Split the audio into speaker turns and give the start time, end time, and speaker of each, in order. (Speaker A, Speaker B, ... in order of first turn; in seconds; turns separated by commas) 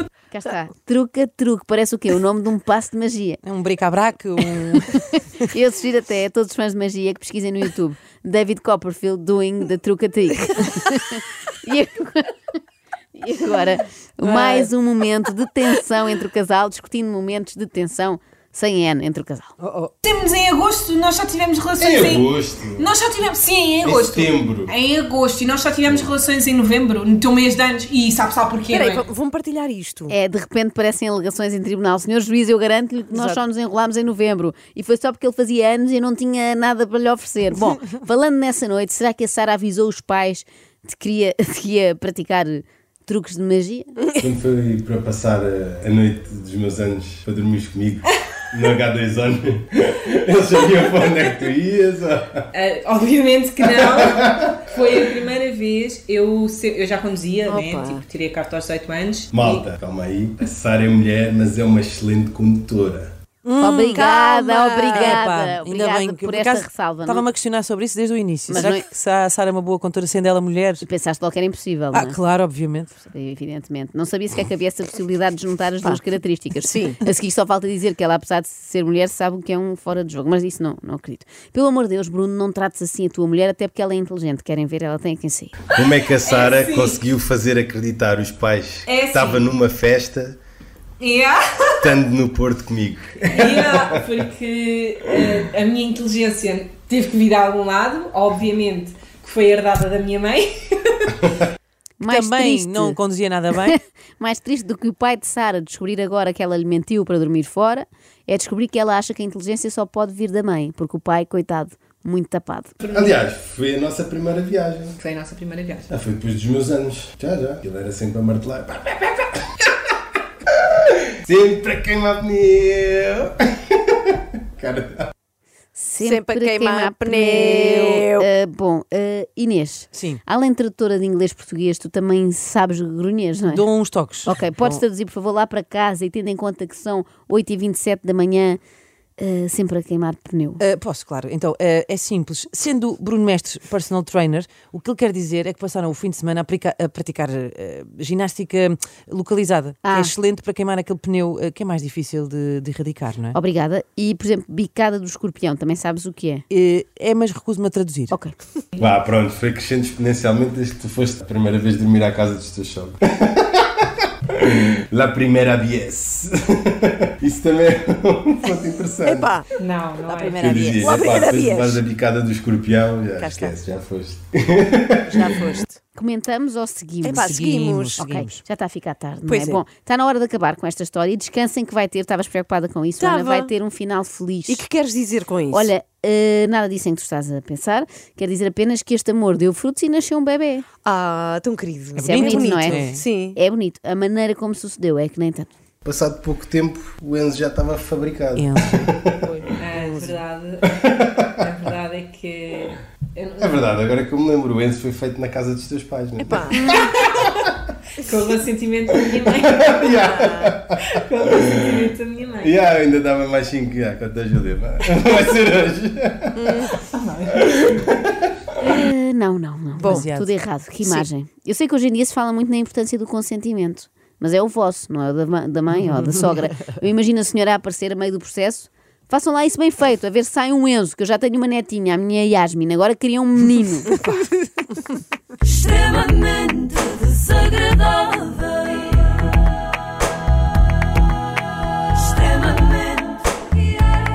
Speaker A: 0.3-3.4, Speaker B: 3.4-5.5, Speaker A: 5.5-12.3, Speaker A: 13.1-19.5, Speaker B: 14.2-14.7, Speaker B: 19.6-19.9, Speaker C: 20.0-29.0, Speaker D: 21.8-22.9, Speaker D: 23.8-24.7, Speaker E: 28.7-30.1, Speaker A: 30.1-44.0, Speaker E: 33.1-33.4, Speaker D: 44.2-52.5, Speaker C: 52.5-59.6, Speaker D: 53.8-54.6, Speaker E: 57.5-58.0, Speaker D: 59.3-63.1, Speaker B: 63.4-64.0, Speaker A: 63.6-67.3, Speaker E: 63.8-65.2, Speaker B: 64.9-70.8, Speaker A: 68.5-68.8, Speaker A: 70.8-72.2, Speaker B: 71.9-72.9, Speaker A: 73.1-85.5, Speaker E: 76.6-77.0, Speaker D: 85.7-90.4, Speaker C: 85.8-87.0, Speaker C: 88.9-89.5, Speaker C: 91.0-91.9, Speaker D: 91.8-94.0, Speaker C: 93.2-101.3, Speaker A: 102.0-103.0, Speaker B: 102.0-103.8, Speaker A: 103.6-112.8, Speaker C: 112.8-113.1, Speaker D: 112.9-115.0, Speaker C: 115.0-115.9, Speaker D: 115.9-119.7, Speaker D: 120.5-125.1, Speaker A: 125.7-133.7, Speaker E: 126.0-128.3, Speaker B: 129.9-130.2, Speaker B: 133.5-134.8, Speaker A: 134.2-138.6, Speaker A: 139.2-140.6, Speaker B: 140.6-153.4, Speaker A: 149.8-150.1, Speaker A: 153.3-156.4, Speaker B: 156.5-158.1, Speaker D: 158.8-169.3, Speaker E: 169.0-169.5, Speaker C: 169.6-170.5, Speaker B: 170.1-171.1, Speaker D: 170.3-175.3, Speaker E: 170.7-171.8, Speaker E: 173.2-173.5, Speaker E: 175.1-175.8, Speaker A: 175.9-177.3, Speaker E: 177.0-178.2, Speaker B: 177.1-178.4, Speaker A: 178.0-184.6, Speaker E: 179.3-179.6, Speaker E: 183.0-183.5, Speaker E: 184.5-185.7, Speaker A: 185.5-190.7, Speaker E: 190.8-193.4, Speaker B: 192.0-193.0, Speaker A: 192.0-195.5, Speaker D: 195.8-199.4, Speaker B: 198.3-199.2, Speaker C: 199.6-200.8, Speaker E: 199.7-200.2, Speaker D: 200.7-201.5, Speaker C: 201.4-203.7, Speaker D: 203.4-206.8, Speaker E: 206.2-206.9, Speaker C: 206.7-207.4, Speaker C: 208.0-210.1, Speaker D: 209.5-210.8, Speaker E: 209.9-210.5, Speaker C: 210.8-212.6, Speaker D: 211.3-211.6, Speaker D: 212.4-216.4, Speaker E: 216.3-216.7, Speaker C: 216.8-217.8, Speaker D: 217.4-218.2, Speaker A: 218.6-234.0, Speaker E: 219.8-220.1, Speaker B: 219.9-220.3, Speaker B: 236.0-237.0